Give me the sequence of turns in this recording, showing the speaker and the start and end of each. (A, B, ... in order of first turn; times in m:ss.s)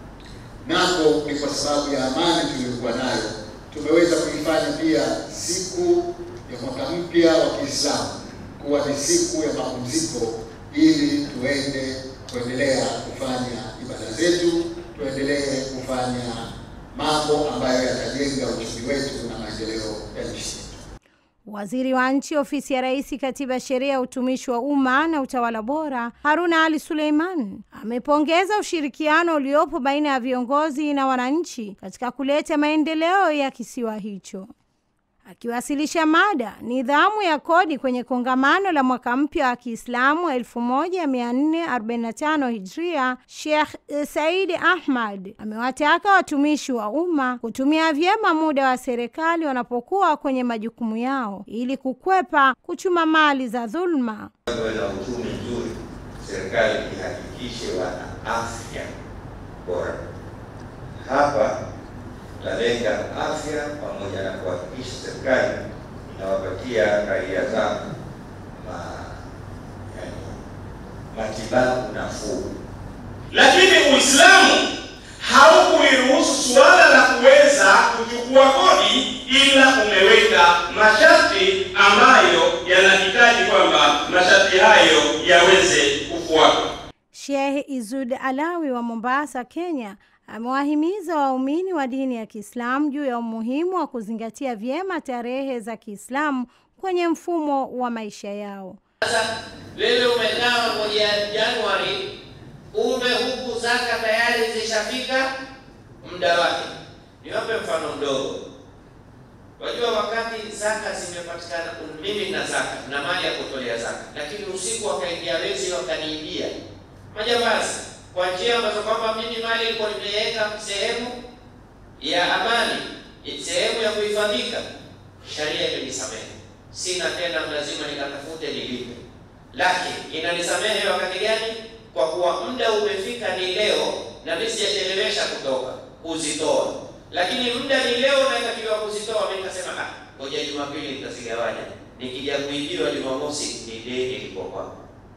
0:00.6-0:20.8 A
0:21.5-0:34.5 B
0:35.3-0:54.3 B
0:54.5-0:58.9 C
0:59.6-1:00.0 C
1:01.0-1:01.6 C
1:02.4-1:05.6 C
1:06.1-1:07.8 C
1:08.6-1:09.2 C
1:09.9-1:10.4 C
1:11.1-1:12.5 C
1:13.3-1:14.7 D
1:15.2-1:26.7 D
1:27.1-1:38.8 B
1:39.0-1:42.0 E
1:42.7-1:45.3 E
1:46.0-1:48.4 E
1:49.6-1:56.5 E
1:57.1-2:01.2 E
2:02.0-2:04.6 E
2:05.2-2:09.0 E
2:09.5-2:24.7 E